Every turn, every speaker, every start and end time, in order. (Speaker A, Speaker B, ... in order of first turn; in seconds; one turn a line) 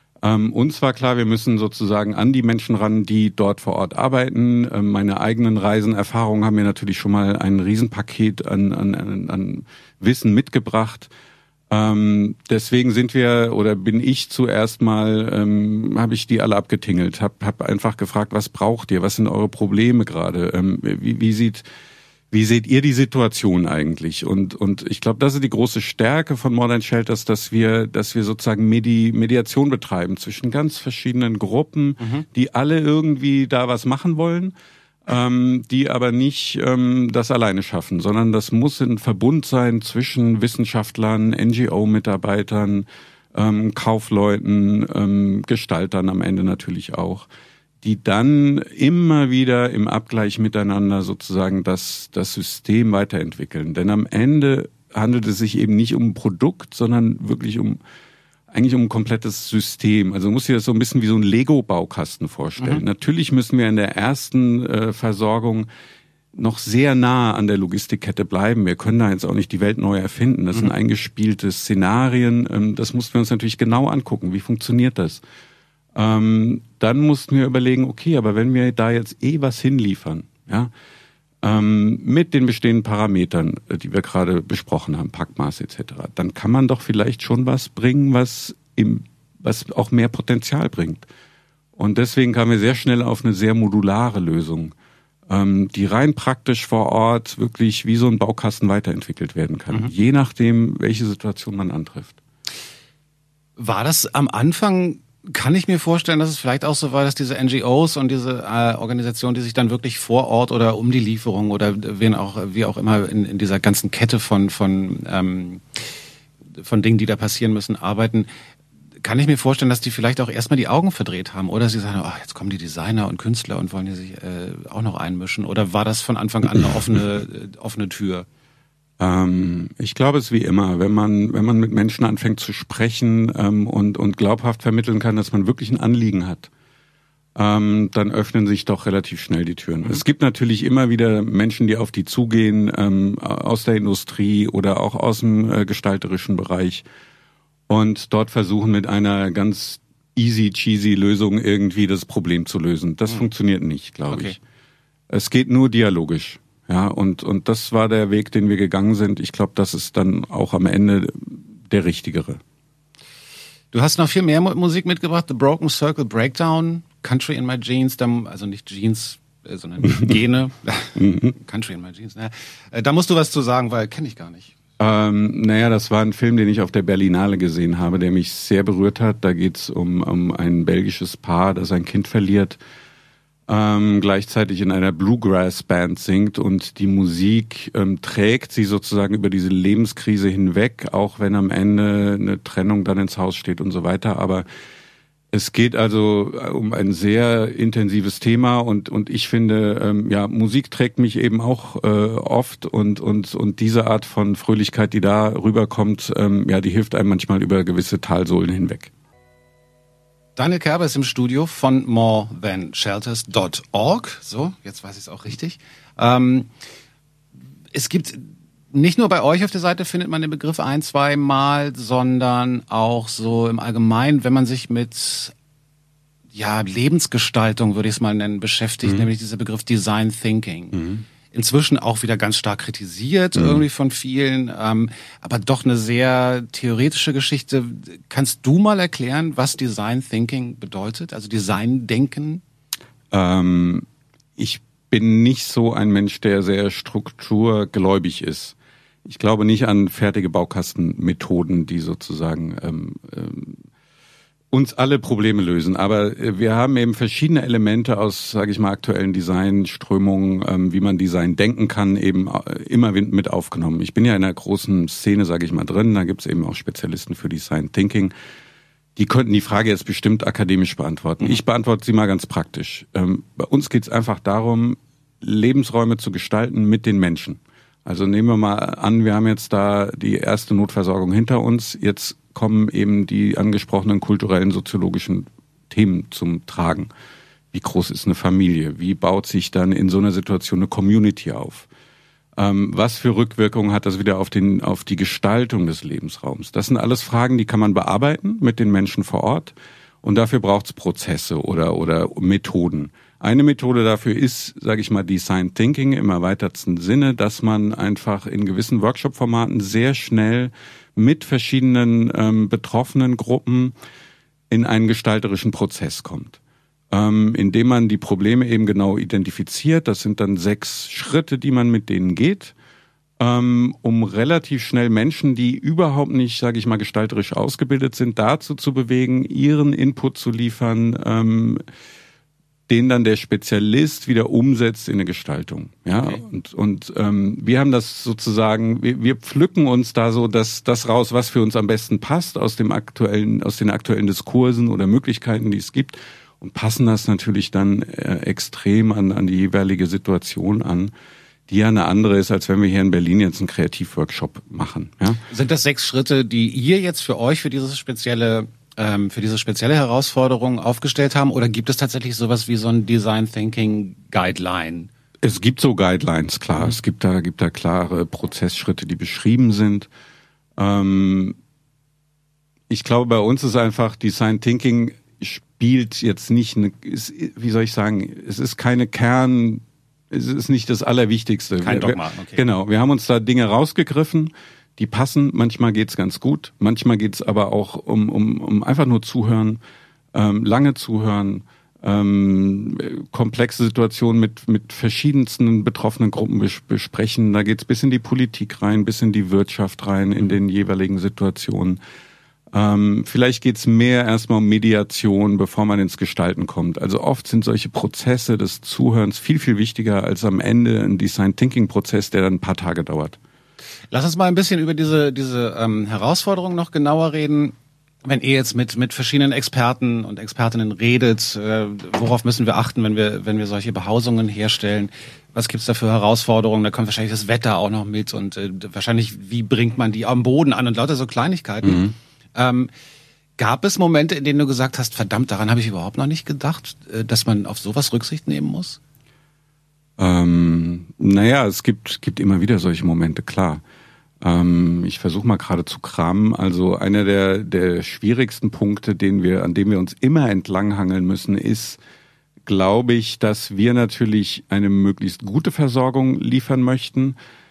Speaker A: 0.2-11.1
Speaker A: 11.7-21.6
Speaker A: 22.3-47.3
Speaker A: 47.8-57.8
Speaker A: 58.5-65.7
Speaker A: 66.3-75.2
Speaker A: 76.0-80.7
Speaker A: 81.4-91.1
Speaker A: 91.8-94.7
Speaker A: 95.3-102.2
Speaker B: 103.6-115.9
Speaker B: 116.6-118.3
Speaker B: 119.0-128.3
Speaker A: 129.0-136.5
Speaker A: 137.3-146.9
Speaker A: 147.7-154.4
Speaker B: 154.1-154.4
Speaker A: 155.1-162.4
Speaker B: 163.7-174.6
Speaker A: 171.0-171.3
Speaker A: 174.8-182.6
Speaker A: 183.5-194.5
Speaker A: 195.3-208.9
Speaker B: 210.4-216.5
Speaker B: 217.7-225.3
Speaker B: 226.3-242.4
Speaker A: 230.7-231.0
Speaker A: 243.1-243.9
Speaker A: 244.4-253.6
Speaker A: 254.5-268.1
Speaker A: 269.0-286.9
Speaker A: 287.5-291.7
Speaker A: 292.4-313.8
Speaker A: 314.5-316.4
Speaker A: 316.9-322.5
Speaker A: 323.2-331.6
Speaker A: 332.7-350.9
Speaker A: 351.5-355.2
Speaker B: 355.3-364.9
Speaker A: 365.2-369.9
Speaker A: 370.6-371.4
Speaker A: 372.7-389.6
Speaker B: 381.6-382.4
Speaker A: 390.1-401.8
Speaker A: 402.5-413.2
Speaker B: 413.9-417.5
Speaker B: 418.1-432.7
Speaker A: 431.6-431.9
Speaker B: 433.4-438.8
Speaker A: 440.0-443.6
Speaker A: 444.2-451.8
Speaker A: 452.4-457.2